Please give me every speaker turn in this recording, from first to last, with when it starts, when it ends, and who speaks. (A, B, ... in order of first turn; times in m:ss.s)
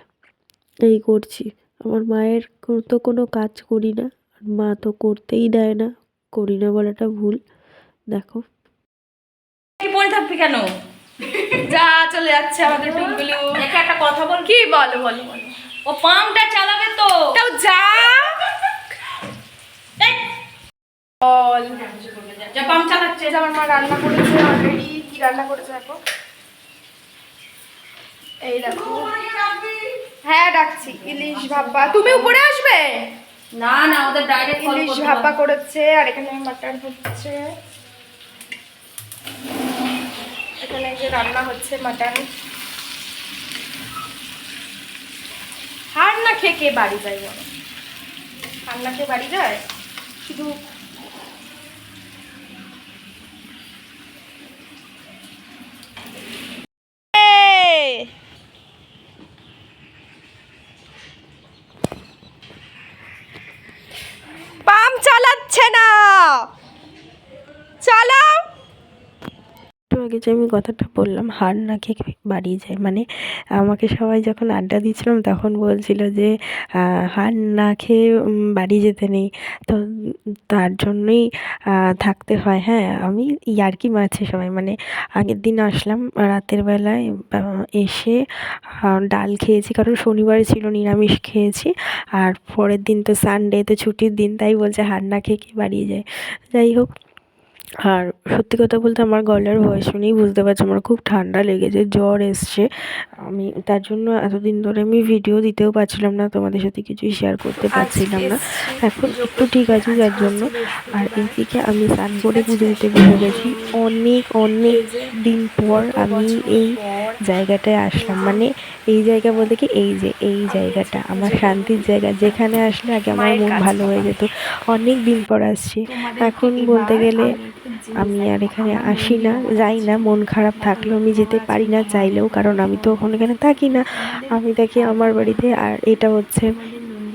0:00.9-0:07.4 A
0:08.1-0:08.4 A
0:09.8-0:10.7 B
0:11.6-0:13.6 C
0:12.6-0:14.5 B
0:14.4-0:15.5 C
0:15.8-0:17.2 B
0:17.3-0:18.4 C
0:21.2-0:22.0 C
0:21.8-0:23.4 B
0:22.5-0:26.0 C
0:28.4-0:29.1 C
0:29.0-0:29.9 B
0:30.2-0:33.1 C
0:30.9-0:32.4 B
0:33.6-0:35.3 B
0:34.6-0:37.4 C
0:40.6-0:42.2 C
0:45.9-0:47.5 C
0:48.6-0:49.6 C
0:50.2-0:50.6 C
0:57.1-0:58.1 C
1:04.6-1:06.5 C
1:07.8-1:08.4 C
1:09.9-1:13.0 A
1:13.6-1:18.0 A
1:18.5-1:19.8 A
1:20.5-1:21.2 A
1:22.0-1:28.2 A
1:28.8-1:36.9 A
1:37.8-1:42.7 A
1:43.3-2:07.3 A
1:47.7-1:51.3 C
1:52.2-1:53.6 C
1:54.7-1:55.1 C
1:55.7-1:57.1 C
1:58.0-1:58.3 C
2:00.5-2:02.2 C
2:03.1-2:04.1 C
2:06.0-2:08.3 C
2:07.9-2:16.5 A